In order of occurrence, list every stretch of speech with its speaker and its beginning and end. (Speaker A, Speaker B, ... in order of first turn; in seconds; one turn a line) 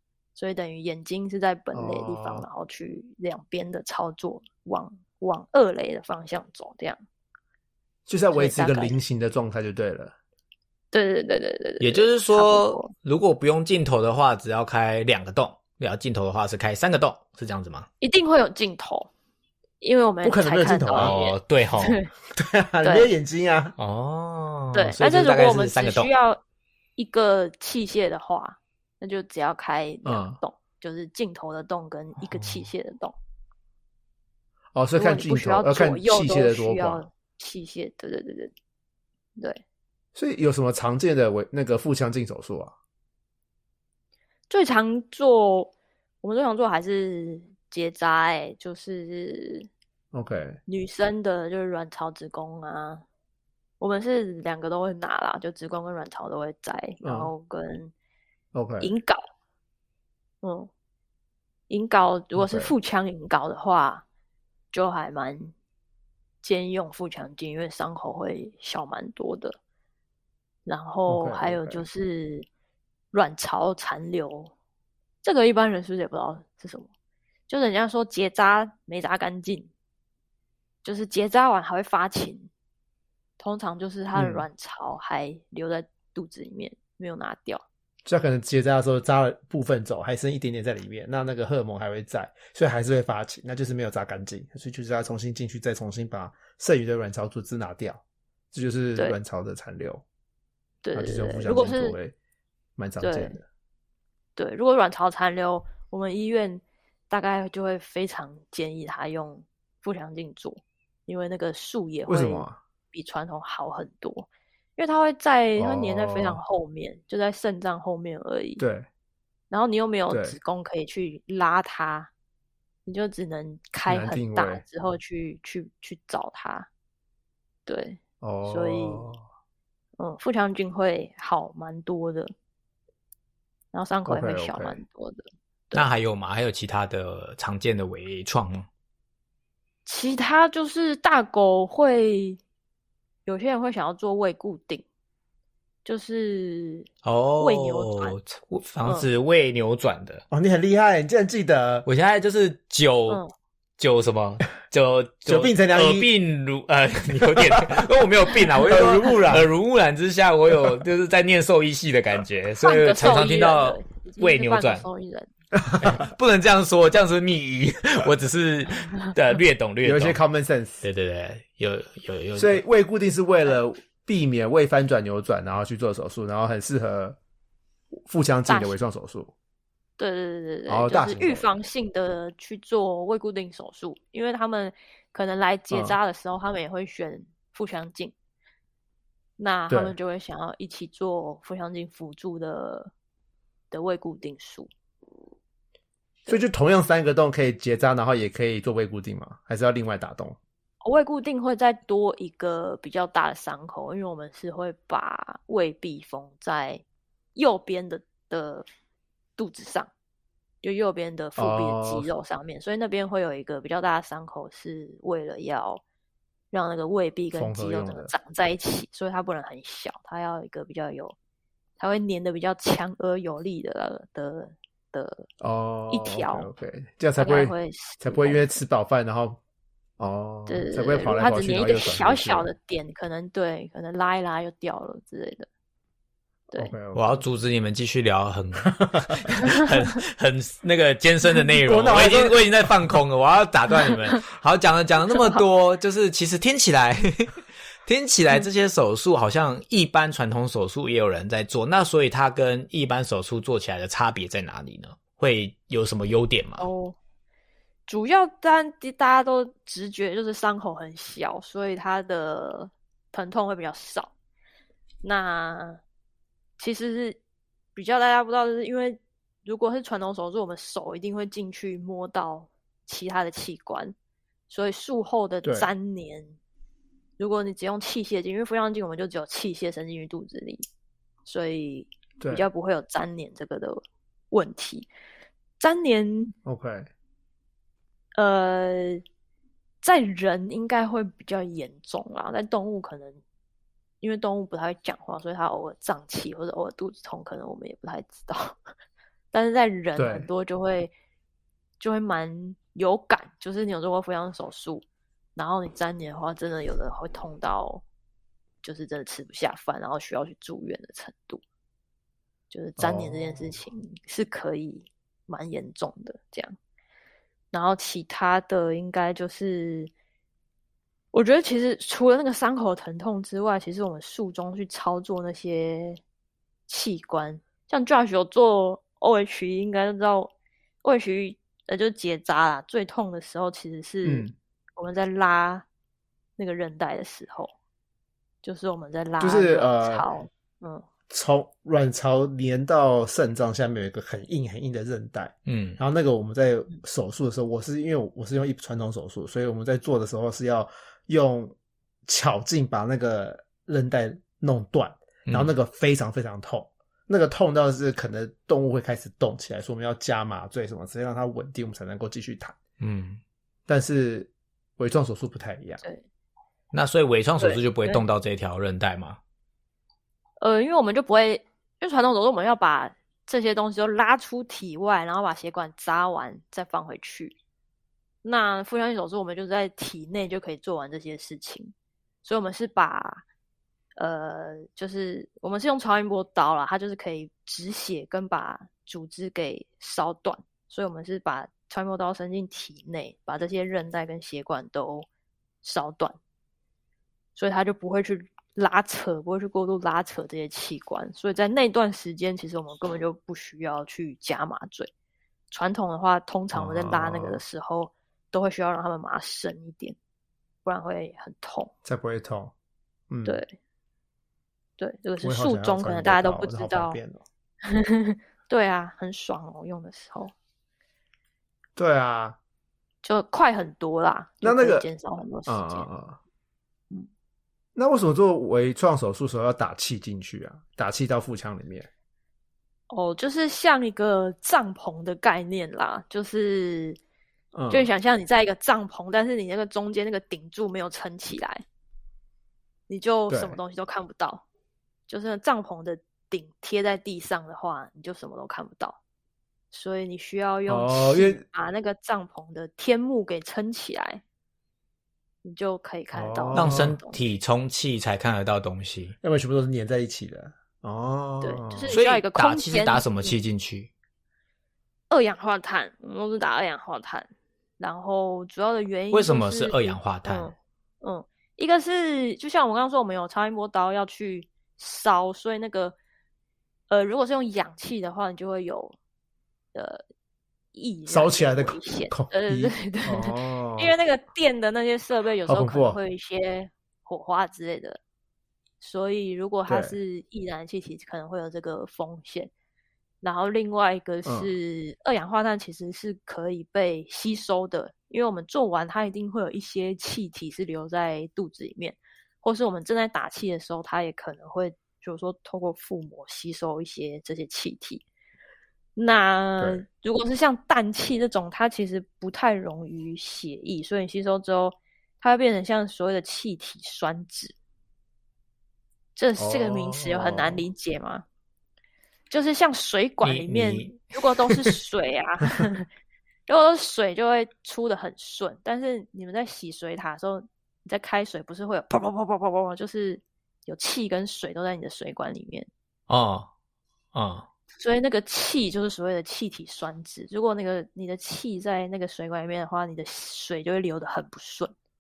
Speaker A: 0.4-7.0
Speaker B: 1.7-2.5
Speaker B: 8.1-10.1
Speaker A: 8.3-8.9
Speaker A: 10.9-12.9
Speaker C: 11.8-17.9
Speaker A: 18.0-19.1
Speaker A: 19.8-22.1
Speaker B: 20.2-21.1
Speaker C: 20.9-22.0
Speaker B: 22.4-23.8
Speaker A: 22.8-23.1
Speaker C: 23.8-26.1
Speaker A: 24.7-26.4
Speaker A: 27.0-33.1
Speaker B: 30.1-30.4
Speaker C: 32.3-32.6
Speaker B: 34.7-37.0
Speaker A: 35.0-38.5
Speaker A: 39.4-39.6
Speaker B: 40.1-42.7
Speaker A: 44.5-49.7
Speaker B: 50.1-50.6
Speaker A: 50.7-53.0
Speaker A: 53.8-57.9
Speaker B: 57.0-57.3
Speaker B: 58.5-58.9
Speaker A: 58.8-59.2
Speaker A: 60.4-60.7
Speaker A: 61.7-64.0
Speaker B: 62.4-62.7
Speaker A: 64.7-65.5
Speaker A: 66.4-69.6
Speaker A: 70.7-72.5
Speaker B: 71.1-71.8
Speaker A: 73.1-74.5
Speaker A: 75.2-76.9
Speaker A: 77.5-79.7
Speaker A: 80.8-82.5
Speaker A: 83.4-87.6
Speaker B: 84.2-84.5
Speaker B: 88.1-100.0
Speaker A: 100.8-102.0
Speaker B: 100.9-102.2
Speaker B: 102.8-103.4
Speaker A: 103.0-103.4
Speaker A: 104.4-118.6
Speaker B: 112.1-112.6
Speaker B: 115.6-116.4
Speaker B: 118.6-118.9
Speaker A: 119.5-122.1
Speaker B: 120.1-120.4
Speaker A: 122.9-126.7
Speaker B: 123.9-124.6
Speaker A: 127.7-129.1
Speaker B: 128.2-129.2
Speaker A: 130.0-132.3
Speaker A: 133.7-135.9
Speaker B: 134.1-134.8
Speaker C: 135.7-138.7
Speaker A: 139.9-142.4
Speaker A: 143.3-144.8
Speaker A: 145.8-146.9
Speaker C: 147.0-150.2
Speaker A: 147.4-148.2
Speaker B: 150.3-151.9
Speaker C: 151.9-153.2
Speaker C: 153.8-164.9
Speaker B: 155.3-156.1
Speaker B: 157.4-157.8
Speaker B: 158.6-159.5
Speaker A: 162.6-165.3
Speaker B: 165.6-166.1
Speaker C: 165.8-170.2
Speaker B: 169.8-170.8
Speaker C: 170.8-172.6
Speaker B: 172.4-177.2
Speaker B: 178.1-179.3
Speaker A: 178.5-178.8
Speaker A: 180.0-188.1
Speaker B: 180.7-181.5
Speaker B: 185.7-186.0
Speaker A: 189.4-192.9
Speaker B: 189.7-189.9
Speaker A: 193.7-194.7
Speaker B: 196.3-200.4
Speaker A: 200.8-206.8
Speaker A: 207.3-208.7
Speaker A: 209.4-209.9
Speaker A: 210.6-215.8
Speaker B: 211.4-212.1
Speaker A: 216.5-221.2
Speaker B: 217.3-218.1
Speaker A: 221.8-225.3
Speaker B: 225.4-229.4
Speaker A: 225.9-226.5
Speaker A: 227.2-228.5
Speaker B: 230.0-232.5
Speaker A: 230.5-235.5
Speaker B: 236.6-237.2
Speaker C: 236.9-256.7
Speaker B: 238.7-239.1
Speaker B: 241.7-242.9
Speaker A: 256.6-257.0
Speaker A: 257.9-264.1
Speaker A: 265.0-265.8
Speaker A: 266.6-267.2
Speaker A: 267.8-273.9
Speaker A: 274.5-276.4
Speaker B: 275.4-275.7
Speaker A: 277.2-280.6
Speaker A: 281.3-284.9
Speaker B: 282.2-282.5
Speaker A: 285.6-286.3
Speaker B: 286.4-286.9
Speaker A: 288.2-289.0
Speaker A: 289.8-293.2
Speaker A: 294.0-298.6
Speaker A: 299.3-300.9
Speaker B: 299.9-300.3
Speaker A: 301.8-307.8
Speaker A: 308.6-311.4
Speaker A: 312.5-316.6
Speaker B: 312.8-313.6
Speaker A: 317.5-319.9
Speaker A: 321.1-326.0
Speaker A: 326.7-330.3
Speaker A: 330.8-335.6
Speaker B: 334.0-334.3
Speaker A: 336.4-337.5
Speaker A: 338.4-340.9
Speaker B: 339.2-340.1
Speaker B: 341.1-362.6
Speaker C: 345.5-345.8
Speaker C: 355.3-355.5
Speaker C: 362.8-363.2
Speaker B: 363.7-365.8
Speaker C: 366.7-369.2
Speaker A: 367.4-368.0
Speaker A: 370.4-377.4
Speaker A: 378.2-383.2
Speaker A: 384.0-395.1
Speaker A: 395.6-396.2
Speaker A: 397.4-404.9
Speaker A: 405.5-410.0
Speaker B: 406.5-407.4
Speaker A: 410.6-411.7
Speaker B: 411.9-412.5
Speaker B: 413.1-413.4
Speaker A: 413.2-413.5
Speaker A: 414.8-417.0
Speaker B: 415.2-417.2
Speaker A: 417.6-420.3
Speaker B: 421.8-422.4
Speaker A: 423.0-425.9
Speaker B: 424.4-424.9
Speaker B: 425.5-426.2
Speaker B: 427.8-431.9
Speaker A: 432.9-437.0
Speaker B: 437.5-437.9
Speaker A: 437.7-441.6
Speaker A: 442.9-444.4
Speaker B: 443.3-443.6
Speaker A: 445.1-449.0
Speaker A: 449.7-454.2
Speaker B: 450.7-451.4
Speaker A: 455.4-457.3
Speaker B: 456.1-457.0
Speaker C: 456.5-459.1
Speaker B: 459.2-462.0
Speaker A: 461.4-463.4
Speaker C: 461.9-463.9
Speaker A: 465.1-467.3
Speaker A: 467.8-476.0
Speaker C: 469.1-470.5
Speaker A: 476.9-479.0
Speaker A: 479.7-480.0
Speaker A: 480.7-488.0
Speaker B: 481.1-483.9
Speaker B: 485.5-486.0
Speaker A: 488.8-492.5
Speaker B: 489.7-490.0
Speaker A: 493.2-508.0
Speaker B: 494.2-494.6
Speaker A: 509.0-517.5
Speaker B: 509.6-509.9
Speaker A: 519.2-521.2
Speaker B: 519.4-520.7
Speaker A: 522.3-525.9
Speaker C: 523.2-524.6
Speaker A: 526.5-535.7
Speaker C: 536.1-536.5
Speaker C: 537.1-537.5
Speaker A: 537.8-544.7